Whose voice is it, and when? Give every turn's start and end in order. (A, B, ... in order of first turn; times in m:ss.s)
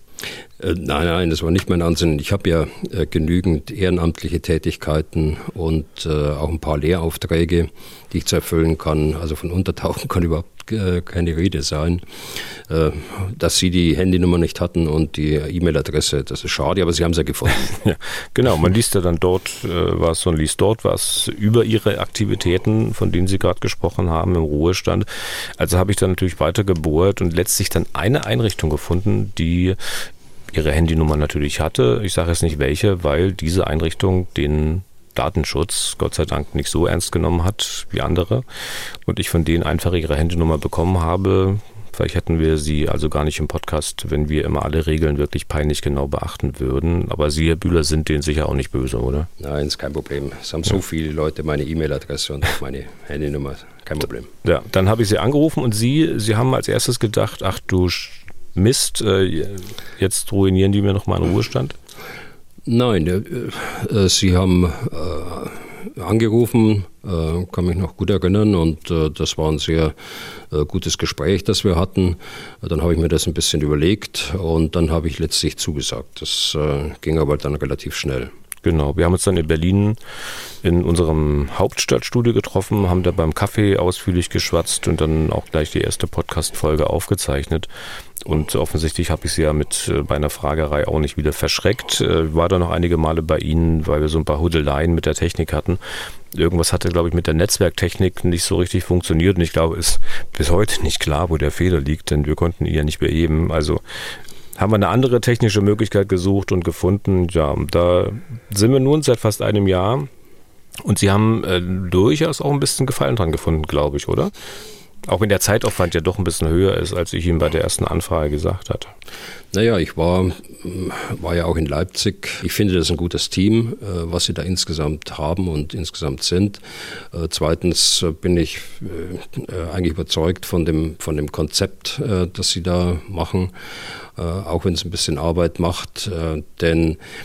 0:00.6-0:17.8 A
0:17.7-0:49.3 B
0:49.4-0:54.3 A
0:54.4-1:01.8 B
1:02.7-1:10.0 A
1:10.5-1:18.3 A
1:18.6-1:20.0 B
1:20.6-1:27.7 B
1:28.2-1:50.1 B
1:50.8-1:54.3 B
1:55.0-1:58.9 B
1:59.5-2:06.6 A
2:07.1-2:13.5 A
2:14.2-2:17.0 A